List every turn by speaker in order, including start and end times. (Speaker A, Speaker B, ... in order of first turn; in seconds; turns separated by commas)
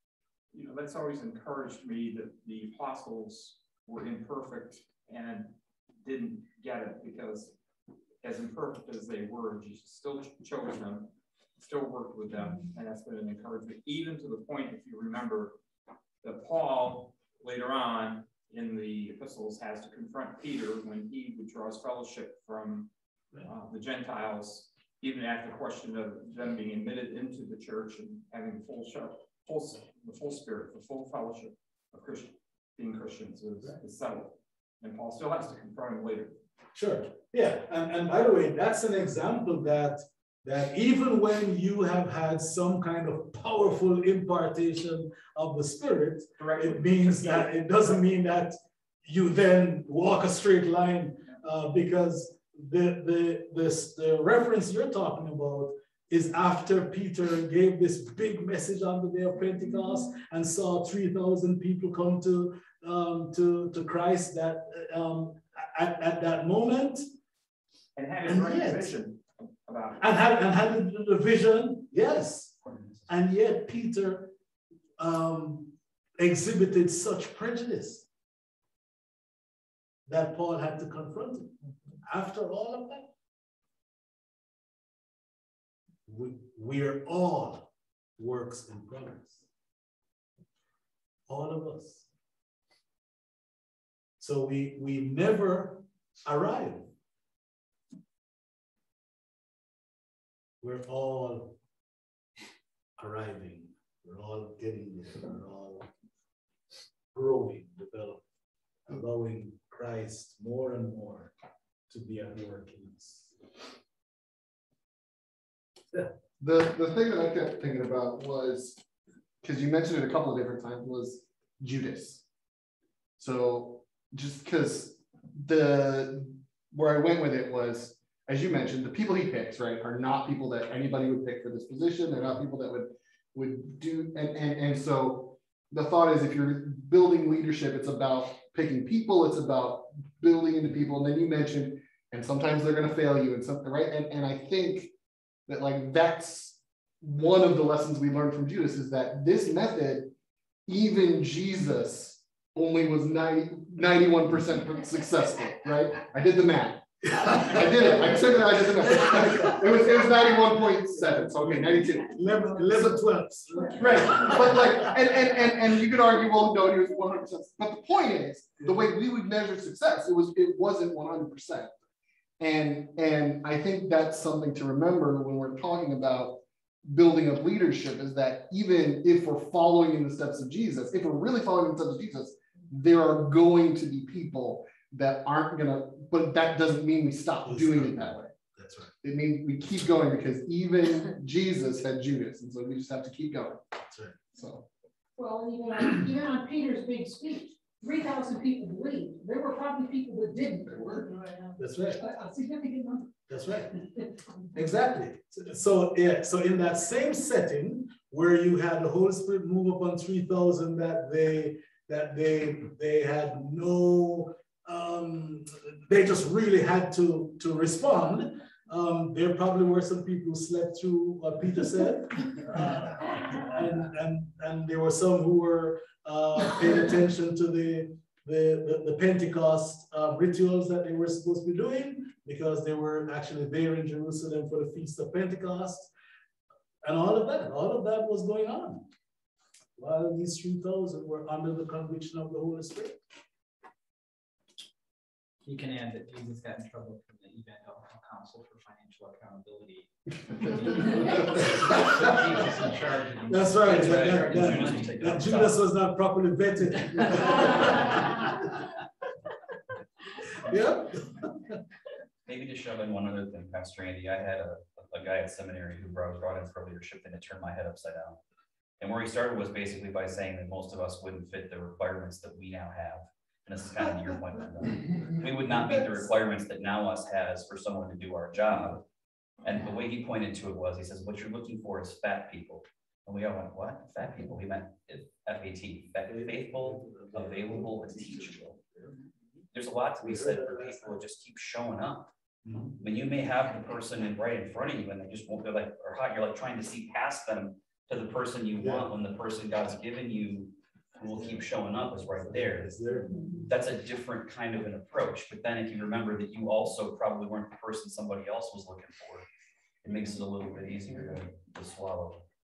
Speaker A: 0.5-7.5, Speaker A: 8.2-11.1, Speaker A: 11.6-15.6, Speaker A: 16.2-36.4, Speaker B: 36.7-67.0, Speaker A: 46.4-47.6, Speaker A: 68.0-70.0, Speaker B: 68.2-69.0, Speaker B: 70.0-74.3, Speaker B: 75.0-78.1, Speaker B: 80.1-83.1, Speaker B: 86.1-89.4, Speaker B: 91.3-92.1, Speaker B: 94.2-96.9, Speaker B: 100.6-101.5, Speaker B: 103.0-105.9, Speaker B: 107.1-108.2, Speaker B: 108.9-111.3, Speaker B: 111.9-113.3, Speaker C: 116.4-118.8, Speaker C: 119.4-122.2, Speaker C: 123.2-144.9, Speaker C: 145.5-150.1, Speaker C: 150.7-162.2, Speaker B: 162.1-164.9, Speaker C: 163.8-171.8, Speaker B: 168.6-168.8, Speaker C: 172.4-188.2, Speaker B: 187.4-188.9, Speaker C: 189.0-193.6, Speaker B: 193.9-194.2, Speaker C: 194.3-194.6, Speaker D: 195.2-203.1, Speaker B: 201.6-202.0, Speaker B: 203.3-203.8, Speaker B: 204.5-235.9, Speaker B: 236.8-238.8, Speaker B: 239.8-243.0, Speaker E: 245.4-254.8, Speaker B: 251.4-252.2, Speaker B: 253.3-258.5, Speaker F: 253.6-255.6, Speaker B: 260.4-261.4, Speaker F: 262.2-268.2, Speaker F: 268.8-278.8, Speaker F: 279.4-288.6, Speaker B: 286.0-288.9, Speaker F: 289.5-292.1, Speaker B: 290.0-291.0, Speaker B: 292.4-292.8, Speaker F: 292.8-309.3, Speaker B: 298.6-299.0, Speaker B: 301.1-303.5, Speaker F: 309.8-312.2